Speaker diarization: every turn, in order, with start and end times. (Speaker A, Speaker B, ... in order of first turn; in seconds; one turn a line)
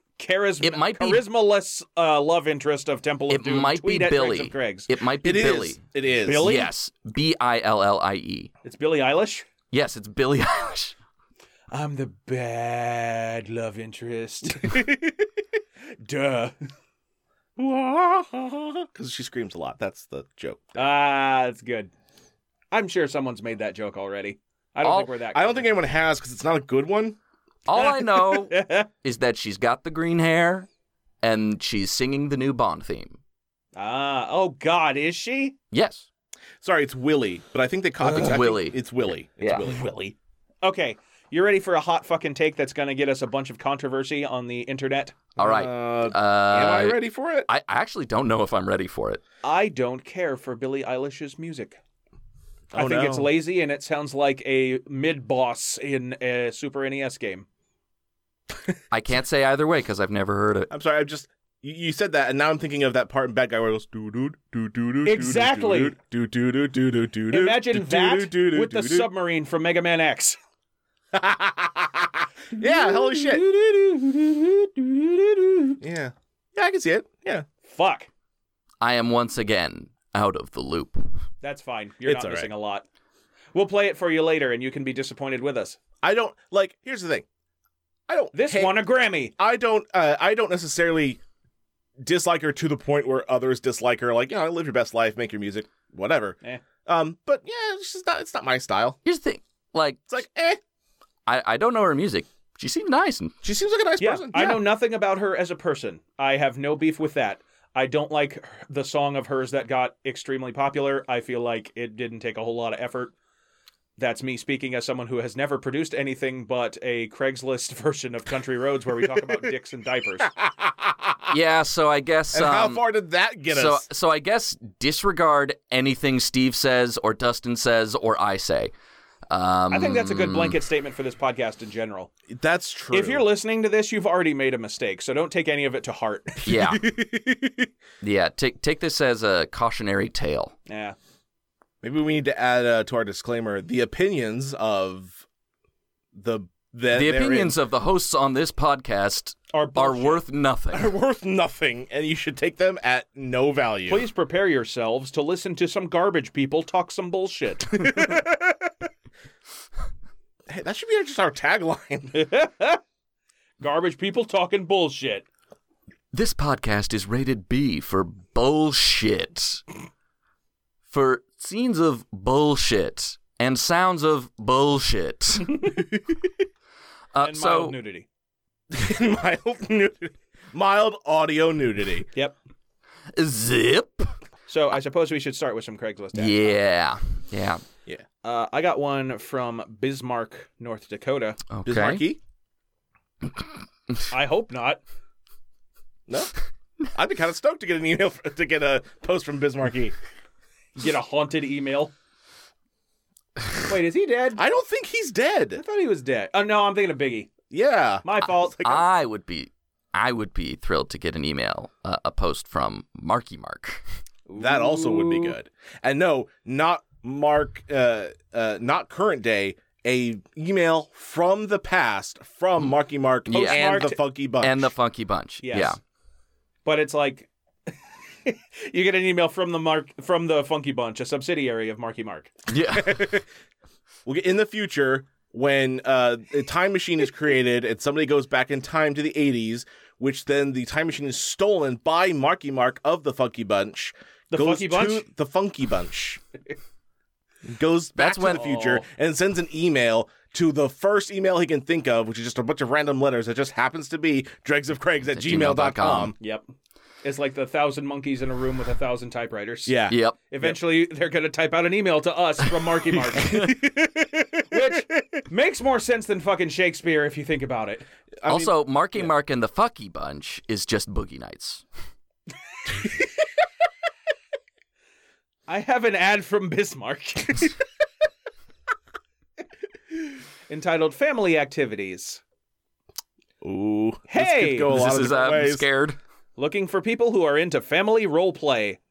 Speaker A: 0.2-4.9
Speaker B: 0.6-1.2
Speaker B: 3.3-5.8
Speaker C: 5.2-6.5
Speaker A: 6.2-6.7
Speaker B: 6.3-8.5
Speaker A: 8.6-9.5
Speaker B: 9.7-10.9
Speaker A: 11.7-15.1
Speaker A: 16.0-16.6
Speaker C: 17.6-20.7
Speaker A: 20.7-21.9
Speaker A: 22.7-25.7
Speaker B: 24.8-25.1
Speaker C: 25.3-27.2
Speaker B: 27.6-30.7
Speaker A: 27.7-28.9
Speaker B: 31.2-33.2
Speaker A: 33.7-35.5
Speaker B: 35.7-36.0
Speaker C: 36.6-40.1
Speaker A: 38.0-38.4
Speaker B: 38.2-39.7
Speaker A: 40.6-45.2
Speaker C: 45.4-47.5
Speaker B: 45.4-49.2
Speaker A: 49.4-51.8
Speaker C: 52.7-53.3
Speaker A: 52.7-57.5
Speaker B: 58.9-60.7
Speaker C: 60.7-69.1
Speaker A: 65.0-65.9
Speaker A: 67.3-70.4
Speaker C: 71.1-73.4
Speaker A: 72.6-75.8
Speaker C: 75.8-77.4
Speaker A: 77.6-78.1
Speaker B: 78.8-81.0
Speaker A: 81.4-82.8
Speaker C: 82.0-82.5
Speaker A: 83.5-85.8
Speaker C: 86.0-87.2
Speaker C: 88.1-88.8
Speaker A: 88.3-89.3
Speaker C: 89.4-91.2
Speaker C: 92.0-99.0
Speaker B: 99.0-100.1
Speaker C: 100.1-100.6
Speaker B: 101.3-103.3
Speaker C: 103.4-104.6
Speaker A: 104.0-113.1
Speaker A: 114.0-120.3
Speaker C: 120.2-121.3
Speaker B: 121.3-122.8
Speaker C: 122.3-123.9
Speaker B: 123.5-128.7
Speaker B: 129.3-130.6
Speaker A: 129.7-132.1
Speaker C: 132.3-133.3
Speaker A: 132.9-136.5
Speaker B: 136.4-136.9
Speaker C: 136.4-137.7
Speaker B: 138.0-140.5
Speaker A: 140.7-140.9
Speaker C: 141.8-145.2
Speaker C: 146.1-147.6
Speaker B: 146.9-150.9
Speaker A: 149.5-150.2
Speaker C: 150.7-154.0
Speaker A: 153.9-158.2
Speaker C: 157.7-158.9
Speaker C: 160.5-162.2
Speaker A: 162.1-162.8
Speaker A: 163.6-165.2
Speaker B: 166.1-169.6
Speaker B: 170.9-175.7
Speaker C: 175.9-176.2
Speaker B: 177.1-177.8
Speaker A: 177.2-178.1
Speaker C: 178.7-182.1
Speaker B: 183.1-184.1
Speaker A: 184.5-186.6
Speaker B: 186.1-187.6
Speaker A: 188.2-191.4
Speaker B: 191.5-192.0
Speaker C: 191.6-192.2
Speaker A: 194.1-194.8
Speaker C: 196.9-199.9
Speaker A: 200.8-201.9
Speaker A: 203.6-204.4
Speaker C: 204.3-205.6
Speaker A: 205.6-207.3
Speaker C: 207.5-208.5
Speaker A: 208.0-208.8
Speaker B: 208.6-213.8
Speaker A: 214.3-215.3
Speaker C: 214.4-224.7
Speaker B: 223.3-223.6
Speaker A: 223.3-224.0
Speaker B: 224.4-225.8
Speaker A: 225.4-225.8
Speaker A: 226.6-227.3
Speaker A: 228.2-232.3
Speaker B: 232.5-233.1
Speaker C: 232.7-233.3
Speaker C: 234.1-246.2
Speaker A: 244.3-245.0
Speaker C: 247.4-256.1
Speaker B: 248.0-248.6
Speaker A: 248.3-248.8
Speaker B: 255.1-256.1
Speaker A: 256.2-256.5
Speaker A: 257.0-259.8
Speaker C: 259.6-260.6
Speaker B: 259.9-260.2
Speaker A: 260.3-263.6
Speaker B: 263.1-263.4
Speaker C: 263.2-265.2
Speaker A: 264.5-267.9
Speaker C: 268.2-268.5
Speaker B: 268.2-271.6
Speaker A: 275.5-277.5
Speaker A: 280.5-282.2
Speaker C: 283.4-285.6
Speaker A: 284.1-284.8
Speaker B: 284.7-286.0
Speaker A: 286.4-288.8